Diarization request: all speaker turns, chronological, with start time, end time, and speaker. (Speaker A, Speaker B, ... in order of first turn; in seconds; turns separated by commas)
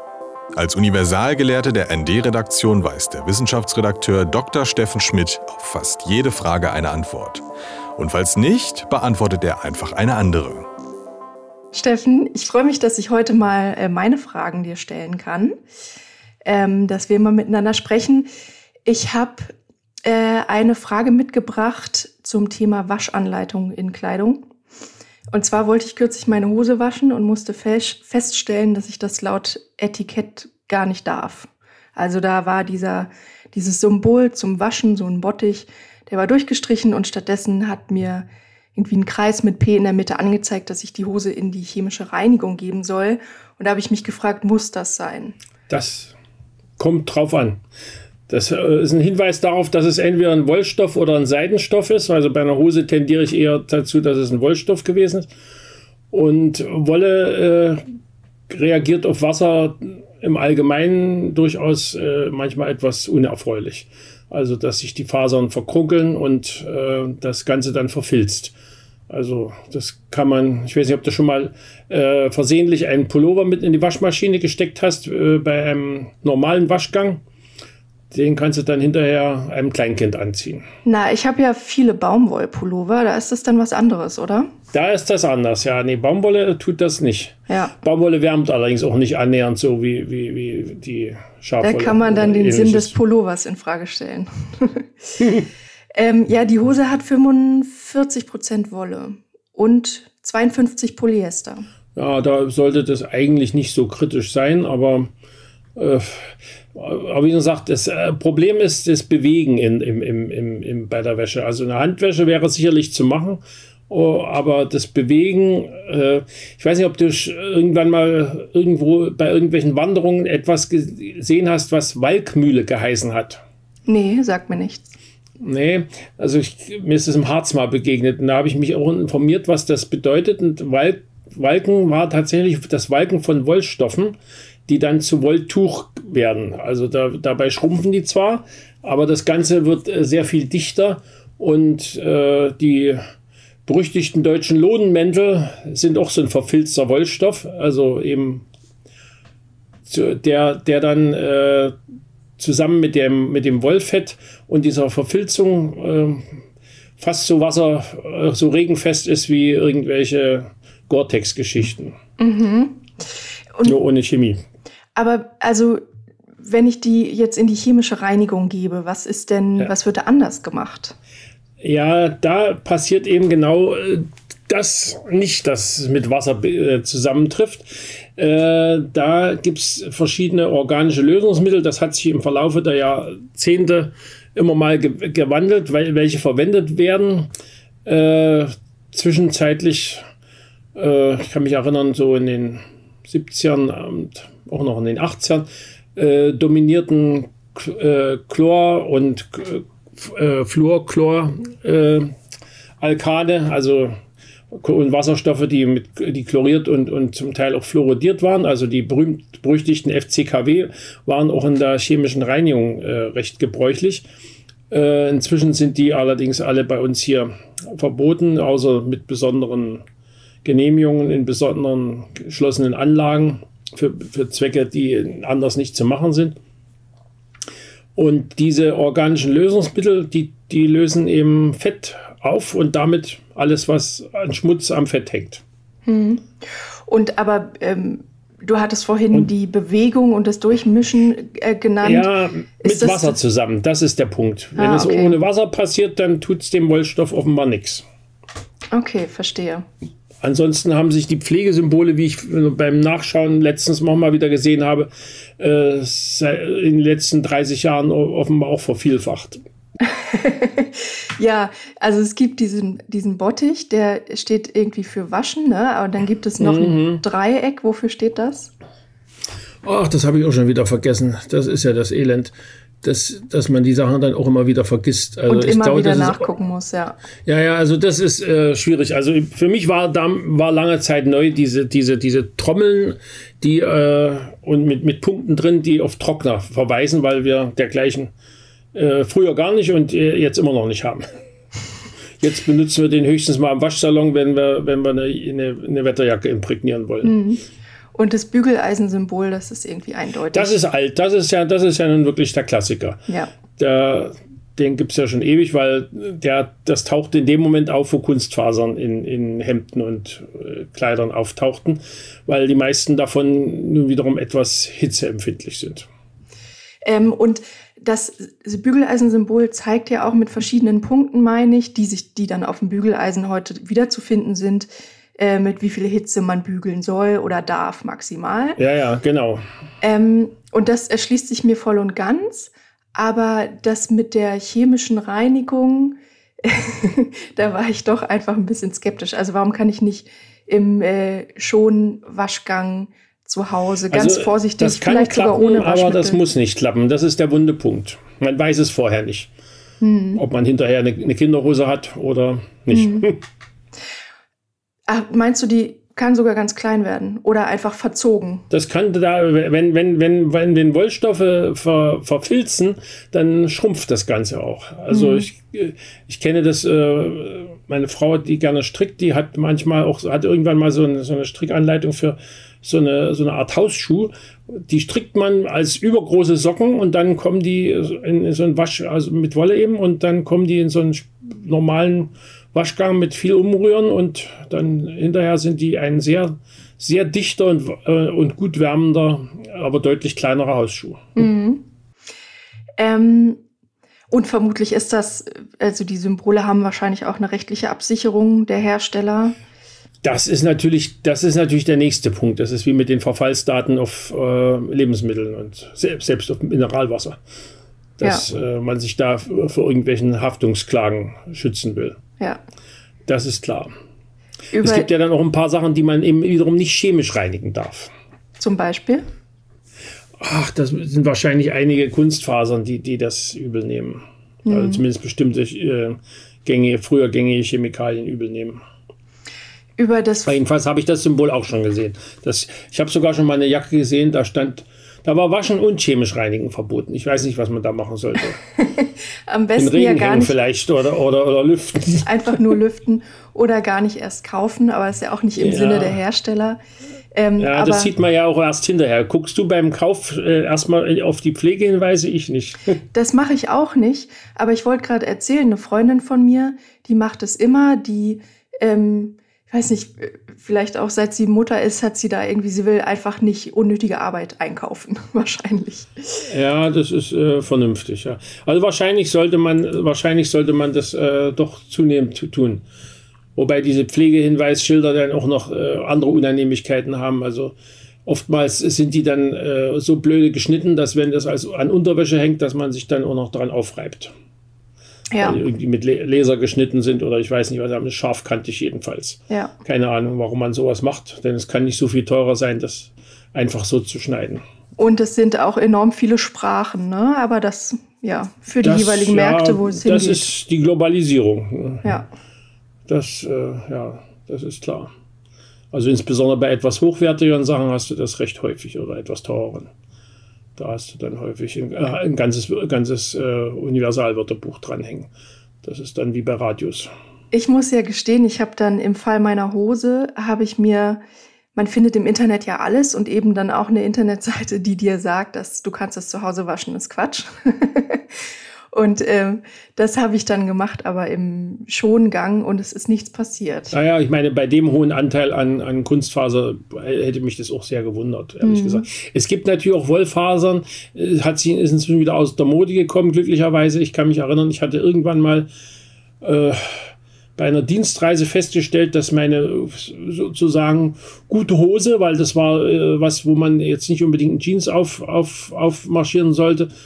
Speaker A: 0.5-7.4, Speaker A: 8.0-10.7, Speaker B: 11.7-15.5, Speaker B: 16.4-18.3, Speaker B: 18.8-24.5, Speaker B: 25.3-45.4, Speaker C: 45.7-46.1, Speaker C: 46.8-47.6, Speaker C: 48.3-55.3, Speaker C: 56.1-57.8, Speaker C: 58.5-68.5, Speaker C: 69.1-77.2, Speaker C: 78.1-80.6, Speaker B: 80.8-84.5, Speaker C: 84.7-92.9, Speaker B: 87.5-87.7, Speaker B: 91.6-95.2, Speaker B: 95.9-101.6, Speaker C: 101.9-105.1, Speaker C: 105.8-123.4, Speaker B: 123.8-124.9, Speaker C: 125.4-134.2, Speaker C: 134.7-143.0, Speaker C: 143.7-148.4, Speaker C: 149.9-151.8, Speaker C: 152.4-156.2, Speaker C: 157.0-161.9, Speaker B: 162.2-162.9, Speaker C: 163.6-164.4, Speaker B: 164.9-165.8, Speaker B: 166.4-170.9, Speaker C: 171.6-187.3, Speaker C: 187.8-190.0, Speaker C: 190.8-202.1, Speaker C: 202.8-203.9, Speaker C: 204.5-214.1, Speaker C: 214.7-219.8, Speaker C: 220.4-226.3, Speaker C: 227.9-235.4, Speaker B: 235.8-243.2, Speaker C: 241.8-247.8, Speaker B: 244.6-245.2, Speaker B: 248.7-249.7, Speaker C: 250.2-259.4, Speaker B: 259.8-268.5, Speaker C: 266.4-267.0, Speaker C: 269.6-276.3, Speaker B: 275.3-277.0, Speaker C: 277.2-288.1, Speaker C: 288.7-291.0, Speaker C: 292.2-297.2, Speaker B: 297.0-297.4, Speaker B: 297.9-300.6, Speaker C: 300.3-315.9, Speaker B: 316.8-328.6, Speaker C: 328.6-329.4, Speaker B: 329.8-346.2, Speaker C: 343.9-349.3, Speaker B: 349.8-350.2, Speaker C: 350.1-353.2, Speaker B: 352.7-353.1, Speaker B: 354.9-358.4, Speaker C: 358.5-391.2, Speaker B: 364.9-365.3, Speaker B: 391.1-391.6, Speaker B: 392.8-393.4, Speaker B: 394.1-399.4, Speaker C: 400.0-407.2, Speaker C: 408.0-412.0, Speaker C: 413.1-413.7, Speaker B: 414.5-414.9, Speaker C: 414.6-417.9, Speaker B: 418.4-419.0, Speaker C: 420.2-428.6, Speaker B: 424.4-424.8, Speaker B: 429.8-430.4, Speaker C: 430.3-438.4, Speaker B: 438.6-440.4, Speaker C: 439.6-442.3, Speaker B: 442.0-446.6, Speaker C: 445.4-446.0, Speaker B: 447.1-447.9, Speaker C: 447.4-452.8, Speaker B: 452.9-466.2, Speaker C: 466.3-472.6, Speaker C: 473.4-477.5, Speaker C: 478.1-484.1, Speaker B: 485.1-485.4, Speaker C: 485.2-494.4, Speaker B: 494.8-500.3, Speaker C: 498.6-501.9, Speaker B: 501.8-502.1, Speaker C: 502.9-504.9, Speaker C: 505.7-509.7, Speaker C: 510.6-515.1, Speaker C: 515.6-516.9, Speaker B: 517.3-521.0, Speaker B: 521.5-528.0, Speaker B: 528.7-533.7, Speaker C: 533.7-545.5, Speaker B: 538.4-538.9, Speaker C: 546.2-556.7